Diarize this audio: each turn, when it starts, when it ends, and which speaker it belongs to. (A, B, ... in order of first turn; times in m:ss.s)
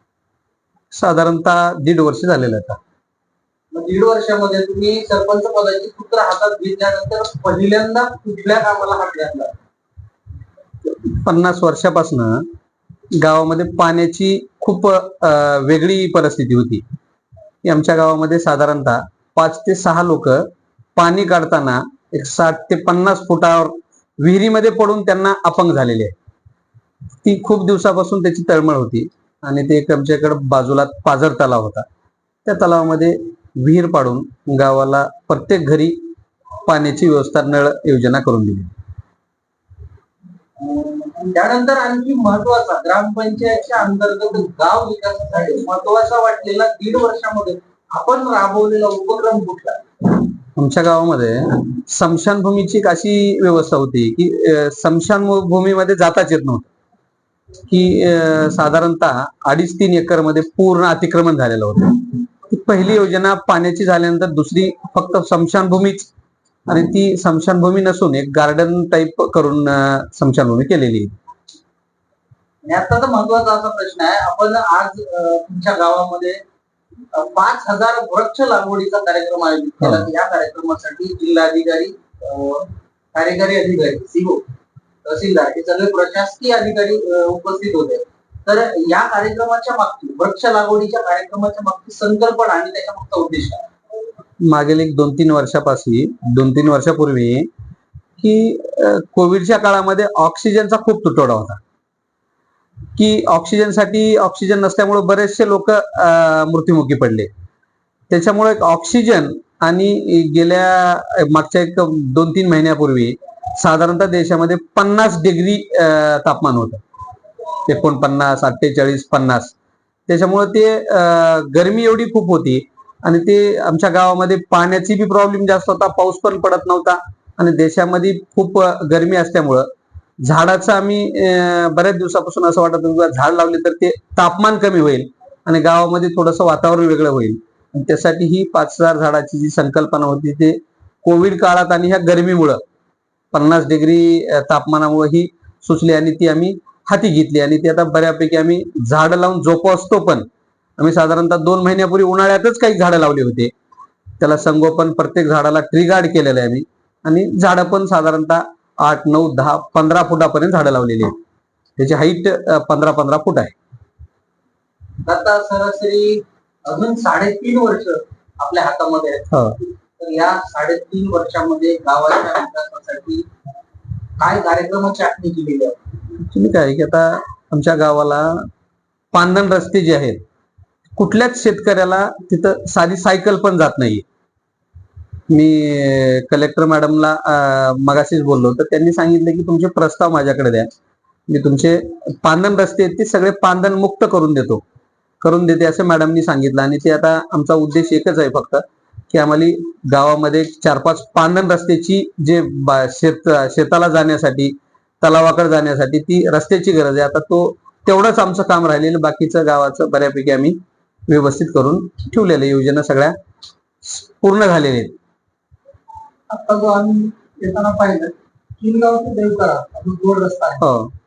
0:00.9-0:02.8 A
0:03.7-0:09.5 B
0:10.8-0:12.4 A
0:13.2-0:16.8 A
0:17.6-0:26.1 A
0:27.2-0:31.8 A
0:32.4-0:36.0 A
0:36.6-0:38.7 A
0:40.6-0:49.8 B
0:50.6-0:56.7 A
0:57.7-1:06.1 A
1:06.7-1:11.1 A
1:12.6-1:16.4 B
1:17.1-1:24.4 B
1:25.0-1:33.6 B
1:34.4-1:37.5 A
1:38.2-1:41.6 A
1:43.0-1:47.3 A
1:48.1-1:56.8 A
1:57.6-1:59.5 A
2:00.1-2:09.7 A
2:10.2-2:22.6 A
2:23.3-2:30.3 A
2:30.8-2:33.5 A
2:34.2-2:41.1 A
2:41.8-2:43.5 A
2:45.0-2:49.4 B
2:49.3-2:49.6 A
2:50.0-2:53.2 B
2:54.2-2:55.9 B
2:56.2-2:58.5 A
2:59.1-3:00.2 A
3:01.0-3:04.0 A
3:05.3-3:10.7 A
3:11.3-3:14.6 A
3:15.2-3:30.6 A
3:31.1-3:33.1 A
3:33.8-3:34.9 A
3:36.3-3:40.6 B
3:40.6-3:40.9 A